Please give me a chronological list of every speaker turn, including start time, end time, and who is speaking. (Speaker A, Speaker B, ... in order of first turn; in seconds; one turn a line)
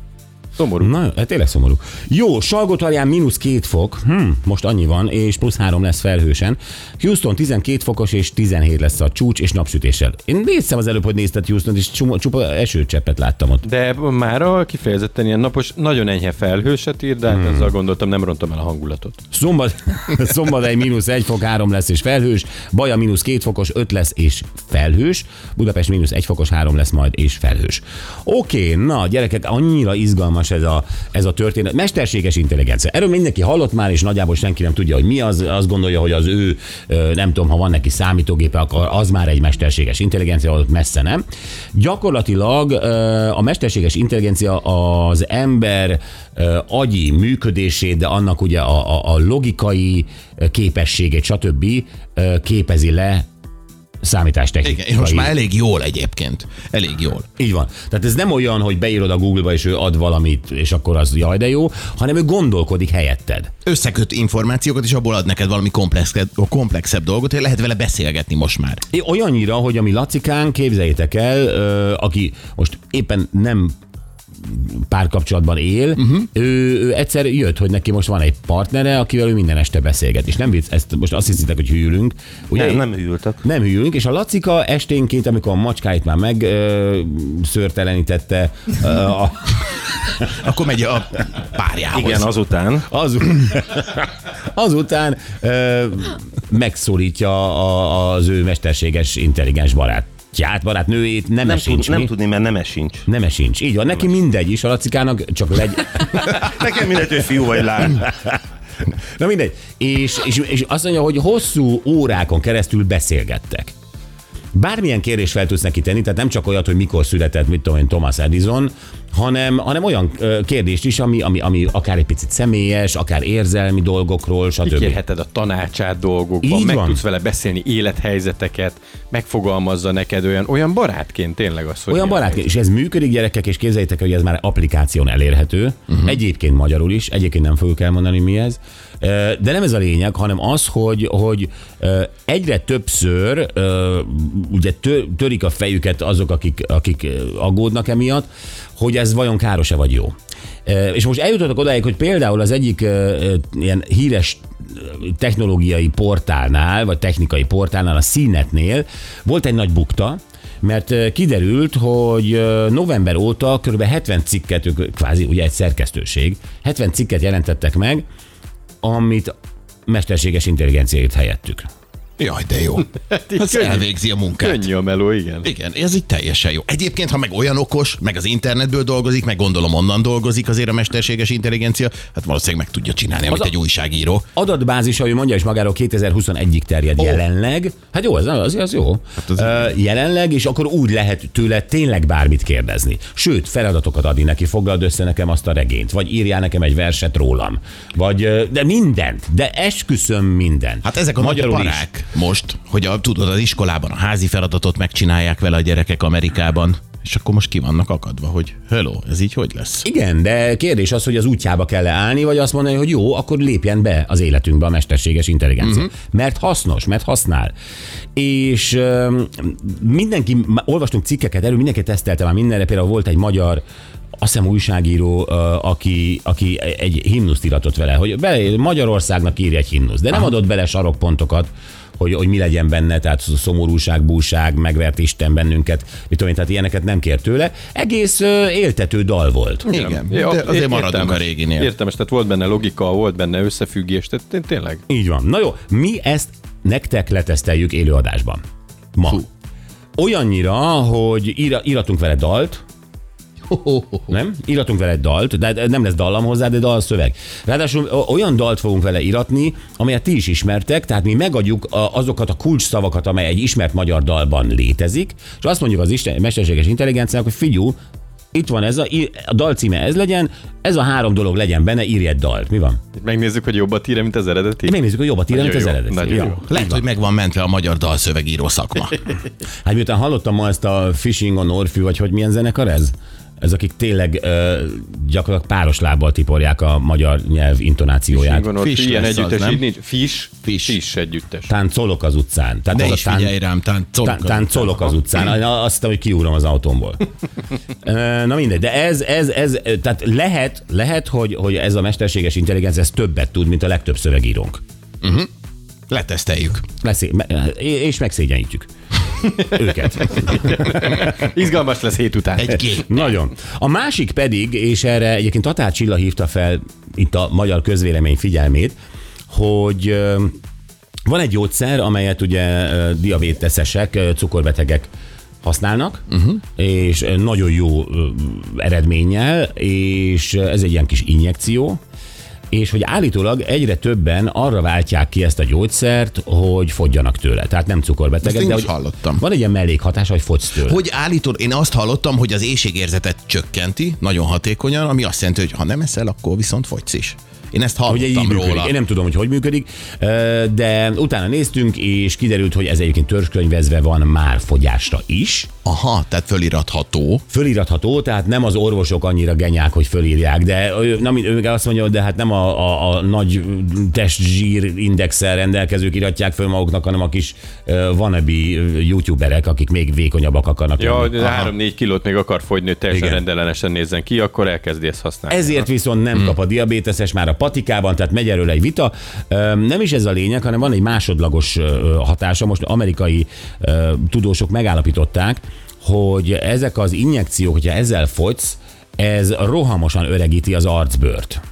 Speaker A: 0.6-0.9
Speaker B: 0.8-13.7
Speaker A: 13.7-19.2
Speaker B: 17.3-17.7
Speaker B: 19.3-41.2
Speaker B: 41.8-53.3
Speaker B: 54.0-55.4
Speaker C: 54.6-57.3
Speaker B: 57.4-63.5
Speaker C: 63.7-68.8
Speaker B: 68.9-73.8
Speaker B: 74.4-82.9
Speaker D: 82.5-83.4
Speaker B: 83.4-90.2
Speaker C: 90.3-92.3
Speaker D: 91.9-92.9
Speaker B: 92.9-102.1
Speaker D: 101.4-103.0
Speaker B: 103.1-106.2
Speaker D: 106.1-108.1
Speaker B: 109.2-113.7
Speaker B: 114.5-125.0
Speaker A: 124.6-132.6
Speaker B: 126.4-127.0
Speaker B: 131.9-150.1
Speaker B: 150.7-168.0
Speaker B: 168.8-169.3
Speaker B: 169.9-171.7
Speaker C: 172.2-174.7
Speaker A: 173.1-175.5
Speaker C: 175.4-184.2
Speaker B: 184.4-201.9
Speaker C: 189.3-189.6
Speaker C: 200.8-209.9
Speaker B: 209.8-217.5
Speaker C: 215.6-215.9
Speaker B: 218.2-223.6
Speaker B: 224.2-239.7
Speaker C: 239.7-241.7
Speaker A: 239.7-244.8
Speaker B: 244.9-248.4
Speaker B: 248.9-249.3
Speaker B: 250.0-252.6
Speaker C: 253.5-254.1
Speaker B: 254.1-267.8
Speaker B: 268.3-272.8
Speaker A: 273.0-276.4
Speaker B: 274.6-276.8
Speaker C: 276.2-279.1
Speaker B: 279.6-288.5
Speaker A: 288.1-291.5
Speaker C: 288.6-289.6
Speaker C: 290.4-290.8
Speaker B: 291.5-293.4
Speaker C: 292.7-295.3
Speaker B: 294.0-297.1
Speaker B: 297.8-304.6
Speaker C: 305.0-305.3
Speaker C: 305.9-306.7
Speaker B: 306.8-308.7
Speaker B: 309.4-311.0
Speaker A: 310.3-312.8
Speaker C: 312.4-312.9
Speaker B: 312.7-318.8
Speaker B: 319.3-320.4
Speaker B: 321.1-324.9
Speaker B: 325.4-331.8
Speaker B: 332.5-340.8
Speaker C: 338.2-339.2
Speaker C: 340.6-348.7
Speaker B: 347.9-355.5
Speaker C: 355.6-357.2
Speaker B: 357.3-371.2
Speaker A: 370.8-375.7
Speaker C: 371.2-371.5
Speaker B: 372.9-373.2
Speaker B: 375.3-391.4